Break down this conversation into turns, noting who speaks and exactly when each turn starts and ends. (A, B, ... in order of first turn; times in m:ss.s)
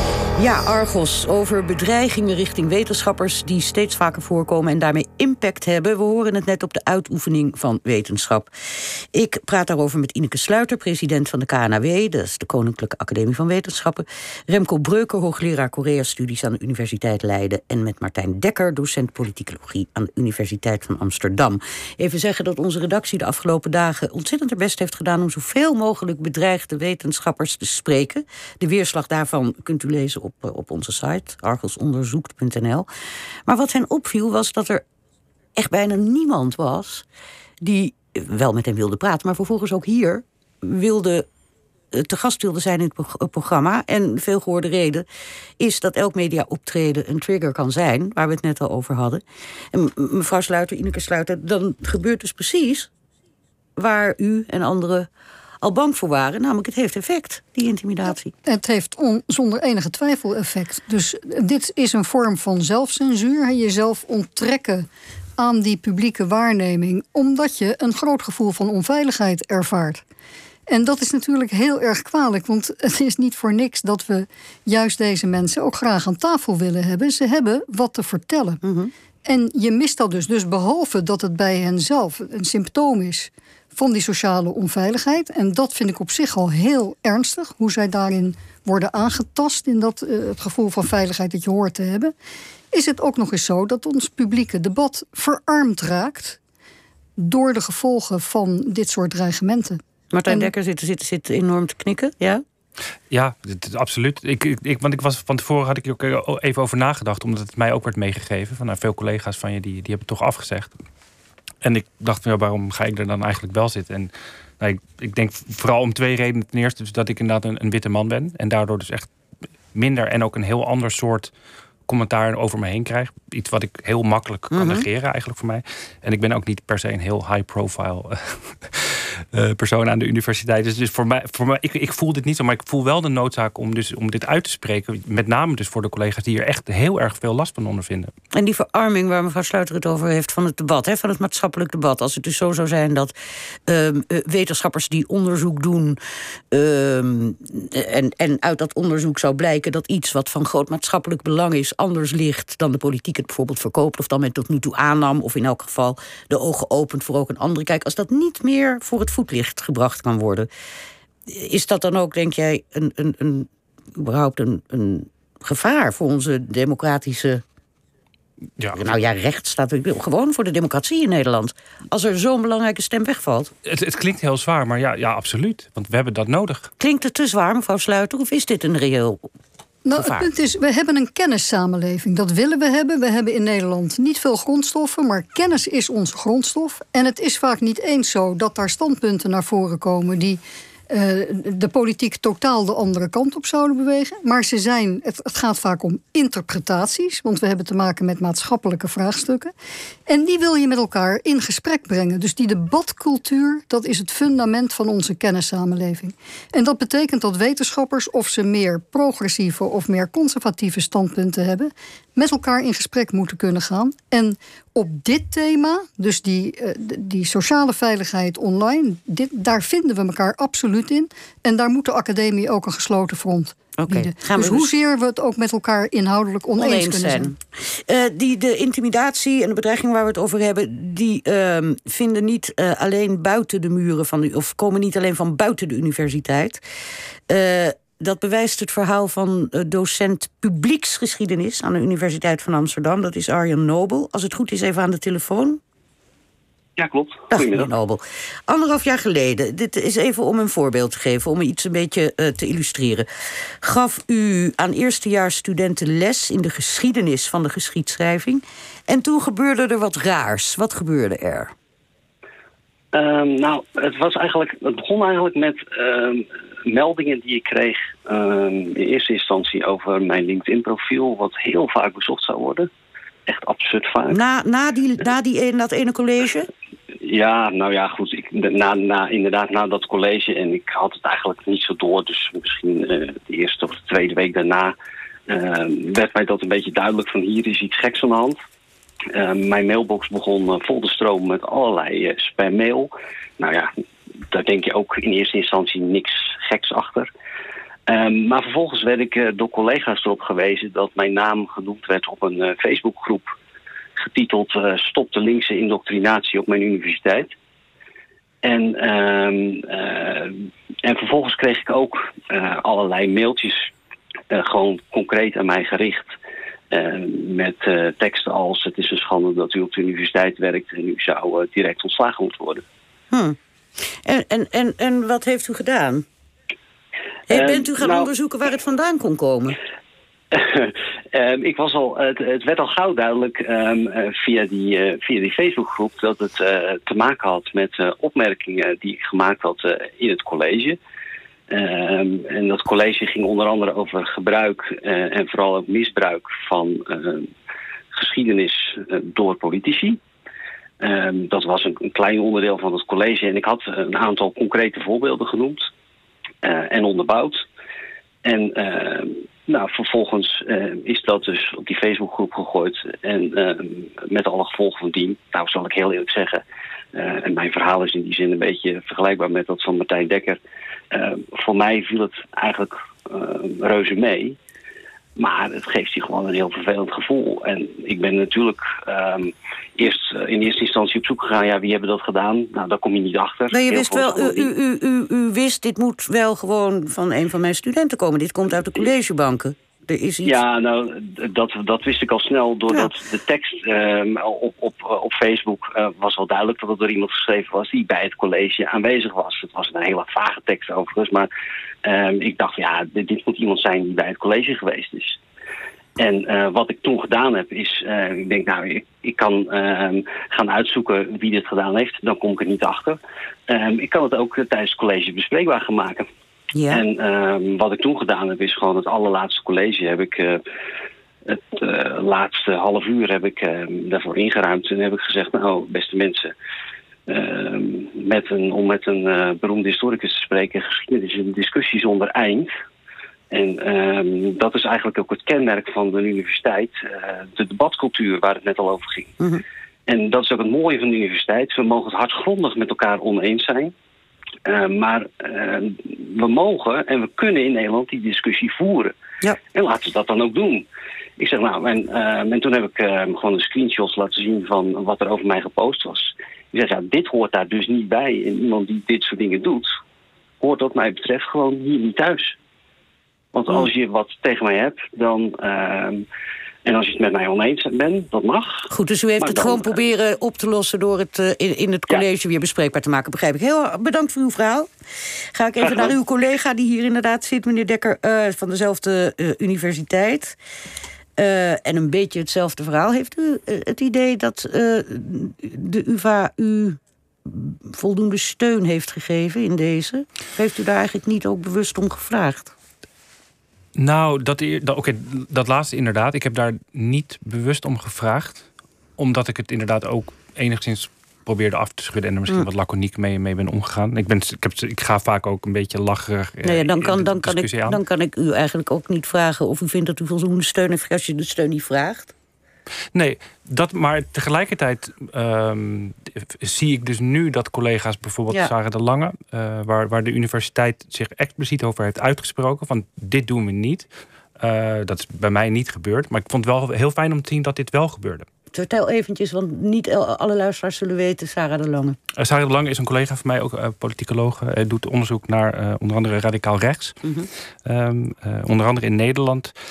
0:00.4-0:32.9 A
0:33.5-0:34.8 A
0:35.6-0:37.0 A
0:37.6-0:41.2 A
0:41.9-0:45.0 A
0:45.6-0:49.2 A
0:49.7-0:52.9 A
0:53.8-0:55.1 A
0:55.6-0:58.3 A
0:58.5-1:04.9 B
1:05.4-1:10.0 B
1:10.7-1:18.6 B
1:18.6-1:18.9 A
1:19.2-1:32.1 B
1:32.7-1:36.4 B
1:37.2-1:40.5 B
1:40.1-1:42.4 A
1:43.1-1:50.7 C
1:51.6-1:59.1 C
1:59.7-2:01.3 C
2:01.9-2:18.1 C
2:04.5-2:04.8 A
2:18.3-2:23.1 A
2:23.7-2:26.0 A
2:26.5-2:40.5 A
2:41.3-2:47.4 A
2:48.7-2:53.5 A
2:53.6-2:56.7 C
2:56.8-2:59.3 A
2:59.8-3:19.5 B
2:59.9-3:00.3 A
3:20.1-3:47.3 B
3:43.8-3:44.7 A
3:46.6-3:56.6 A
3:57.3-4:05.6 A
4:06.8-4:07.7 D
4:07.3-4:13.0 A
4:13.6-4:21.5 A
4:22.9-4:32.7 D
4:33.3-4:34.2 D
4:34.1-4:36.5 A
4:37.0-4:44.7 D
4:45.3-4:48.4 D
4:49.1-4:53.7 D
4:54.3-4:57.1 D
4:57.9-5:03.3 D
5:04.0-5:07.3 D
5:08.4-5:13.7 D
5:14.3-5:16.1 D
5:16.7-5:22.6 D
5:23.1-5:23.4 A
5:24.0-5:26.0 A
5:27.3-5:29.6 A
5:27.3-5:28.1 D
5:30.3-5:40.8 D
5:41.5-5:47.3 D
5:47.9-5:50.0 D
5:50.8-5:55.7 D
5:56.4-5:57.4 D
5:58.2-6:06.4 D
6:06.9-6:10.4 D
6:10.9-6:14.4 D
6:15.2-6:24.5 D
6:23.5-6:30.4 A
6:30.2-6:41.3 D
6:41.8-6:45.2 D
6:46.0-6:56.0 D
6:56.5-6:56.8 A
6:56.7-7:00.4 D
7:01.3-7:06.3 D
7:07.1-7:12.5 D
7:13.3-7:19.1 D
7:19.9-7:23.7 D
7:24.4-7:28.9 D
7:29.5-7:30.6 D
7:31.2-7:39.7 D
7:40.4-7:42.3 D
7:43.3-7:46.0 D
7:46.6-7:48.7 D
7:48.7-7:54.7 A
7:49.2-7:49.9 D
7:55.3-8:00.4 A
7:55.6-7:55.9 D
8:01.2-8:12.5 A
8:13.7-8:27.8 C
8:26.4-8:32.1 A
8:32.9-8:43.8 C
8:44.4-8:48.2 C
8:48.5-8:52.0 A
8:52.2-8:57.0 C
8:57.0-8:57.3 A
8:57.6-8:59.5 C